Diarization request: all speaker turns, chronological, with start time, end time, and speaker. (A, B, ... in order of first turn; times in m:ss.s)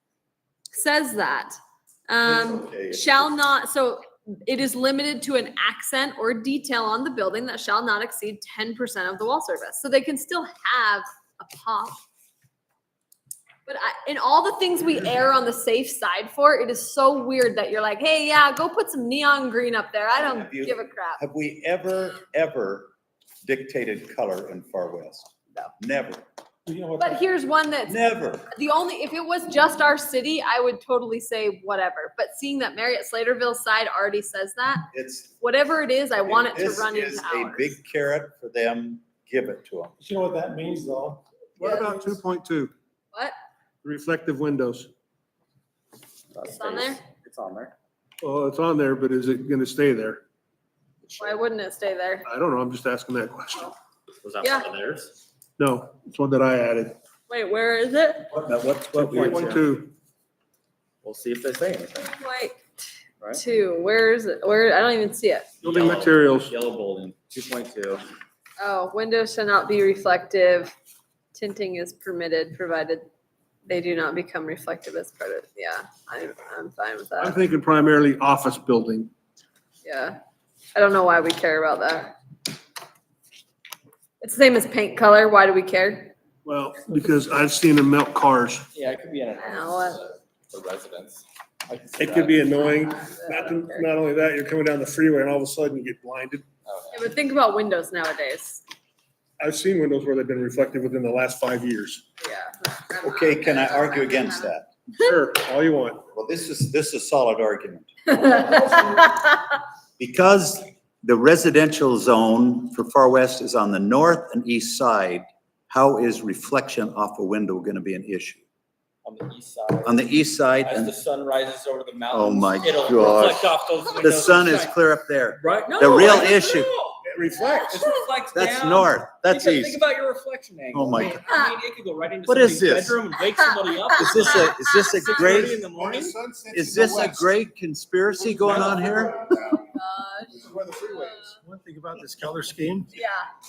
0:00.7-0:01.6 A
0:02.1-0:12.0 A
0:02.2-0:03.3 B
0:13.7-0:21.2 A
0:20.2-0:26.2 B
0:26.7-0:27.2 C
0:27.0-0:34.9 A
0:27.9-0:28.5 B
0:34.9-0:35.4 B
0:35.4-0:37.8 A
0:36.2-0:40.0 B
0:40.0-0:41.2 C
0:41.6-0:42.7 D
0:41.6-0:42.2 A
0:43.8-0:44.9 D
0:46.3-0:47.7 E
0:46.5-0:47.0 A
0:48.2-0:50.2 D
0:51.0-0:51.4 E
0:51.2-0:52.3 A
0:52.3-0:53.7 D
0:54.2-0:55.1 E
0:54.4-0:54.7 A
0:55.6-0:57.0 D
0:57.3-0:58.4 A
0:58.3-0:59.6 E
0:58.9-0:59.9 D
1:01.0-1:02.2 E
1:02.0-1:02.6 A
1:03.3-1:05.5 A
1:05.6-1:08.0 E
1:05.6-1:06.5 D
1:08.6-1:10.7 A
1:11.3-1:13.1 A
1:13.7-1:17.4 A
1:17.2-1:19.1 D
1:19.8-1:20.2 A
1:20.8-1:22.1 A
1:24.2-1:26.1 A
1:26.4-1:28.7 D
1:28.7-1:32.6 E
1:29.4-1:30.0 A
1:32.0-1:36.5 D
1:32.6-1:33.9 A
1:36.6-1:37.0 E
1:36.9-1:38.6 A
1:39.4-1:42.0 D
1:42.2-1:45.2 A
1:43.0-1:44.7 B
1:45.0-1:46.0 D
1:46.1-1:48.8 B
1:48.1-1:49.3 A
1:50.0-1:58.4 B
1:59.0-2:04.8 E
1:59.8-2:00.9 B
2:02.1-2:06.7 B
2:05.4-2:07.0 E
2:05.7-2:06.6 A
2:07.0-2:07.9 D
2:07.4-2:07.9 A
2:07.6-2:16.2 E
2:08.3-2:09.8 B
2:10.7-2:11.2 B
2:11.2-2:11.6 A
2:12.3-2:13.0 B
2:13.4-2:15.5 A
2:14.0-2:15.6 B
2:15.2-2:17.3 D
2:16.5-2:19.6 B
2:18.2-2:19.6 D
2:19.5-2:21.4 A
2:20.3-2:21.3 D
2:21.4-2:22.9 C
2:22.9-2:23.3 A